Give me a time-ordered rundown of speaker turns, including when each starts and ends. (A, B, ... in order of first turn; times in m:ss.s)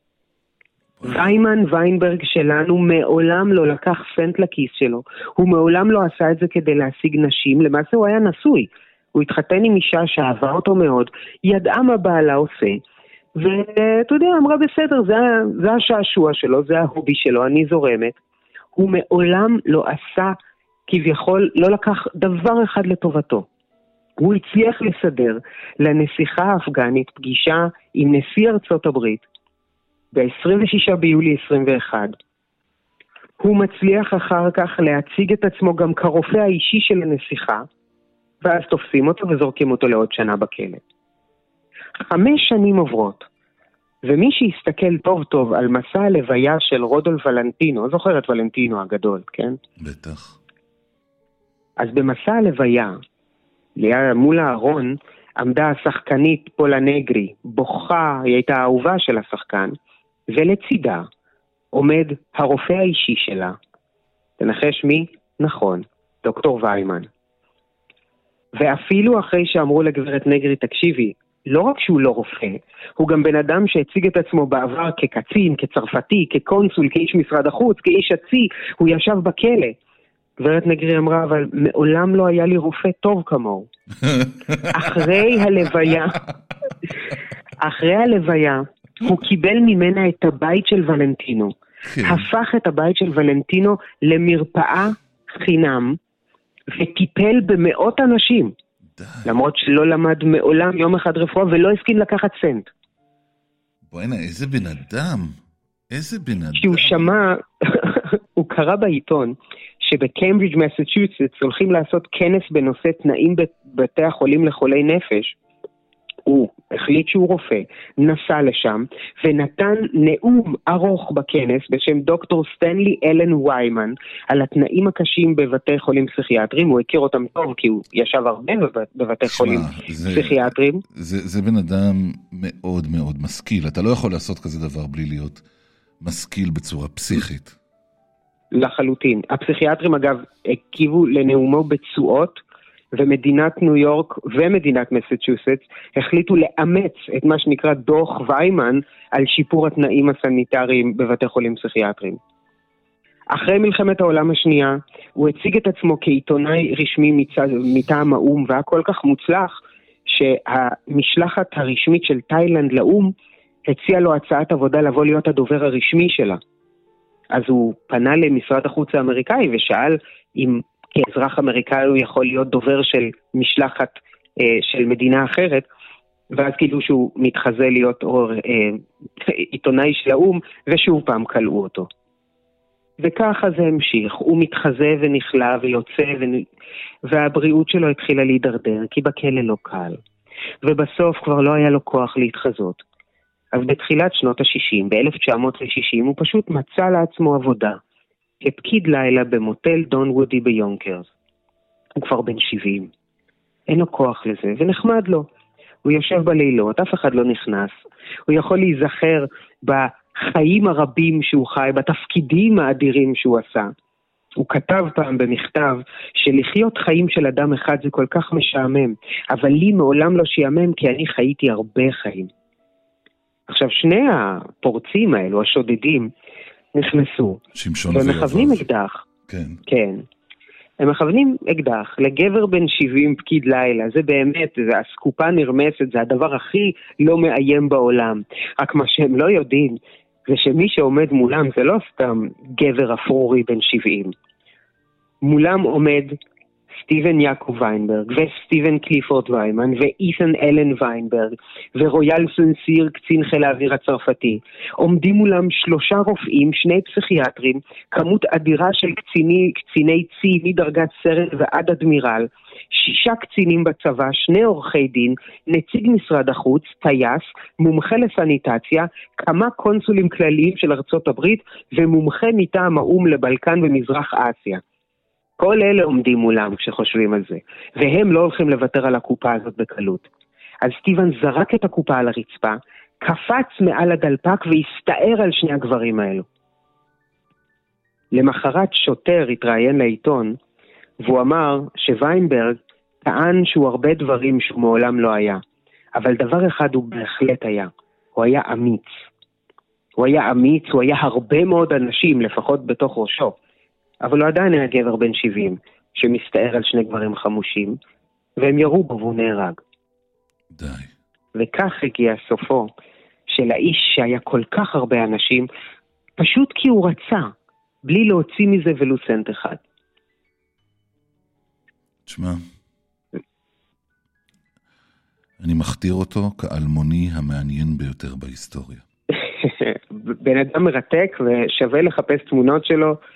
0:01.0-0:12.8 A
0:13.4-0:18.2 A
0:18.8-0:20.3 A
0:20.9-0:23.4 A
0:24.2-0:29.2 A
0:30.1-0:32.1 A
0:33.4-0:37.6 A
0:38.4-0:40.8 A
0:42.1-0:43.2 A
0:44.0-0:49.6 A
0:49.8-0:50.4 B
0:51.8-0:53.0 A
0:53.8-0:59.7 A
1:00.3-1:01.1 A
1:01.7-1:03.6 A
1:04.4-1:07.1 A
1:08.6-1:19.7 A
1:20.4-1:23.7 A
1:24.1-1:24.9 B
1:24.7-1:26.2 A
1:27.6-1:31.5 A
1:31.8-1:32.2 B
1:32.0-1:36.0 A
1:36.7-1:38.5 A
1:39.0-1:39.3 B
1:39.2-1:42.6 A
1:43.9-1:45.3 B
1:45.9-1:47.1 B
1:46.6-1:55.3 A
1:56.2-2:10.8 A
2:09.3-2:15.4 B
2:16.0-2:17.5 B
2:18.5-2:22.4 A
2:22.9-2:32.2 A
2:33.3-2:39.6 A
2:40.1-2:43.1 A
2:43.7-2:46.4 A
2:47.3-2:55.6 A
2:56.3-3:01.9 A
3:03.0-3:06.4 A
3:07.1-3:10.0 A
3:10.6-3:12.8 A
3:13.5-3:17.8 A
3:18.4-3:21.1 A
3:22.0-3:22.9 A
3:23.7-3:25.2 A
3:25.8-3:27.7 A
3:28.3-3:33.7 A
3:34.4-3:42.3 A
3:43.5-3:46.1 A
3:46.7-3:47.4 A
3:47.5-3:48.6 B
3:47.9-3:49.0 A
3:49.3-3:49.6 B
3:49.7-3:50.0 A
3:50.8-4:04.1 A
4:05.2-4:06.2 A
4:06.8-4:34.6 A
4:35.4-4:40.0 A
4:40.6-4:46.2 A
4:48.1-4:50.4 A
4:51.0-4:55.4 A
4:56.0-4:58.9 A
5:00.0-5:03.3 A
5:04.0-5:07.8 A
5:08.4-5:09.6 A
5:10.5-5:10.9 B
5:11.4-5:12.7 A
5:13.3-5:15.5 A
5:16.2-5:17.3 A
5:17.8-5:19.6 A
5:22.1-5:22.4 B
5:25.4-5:28.8 B
5:29.3-5:33.0 A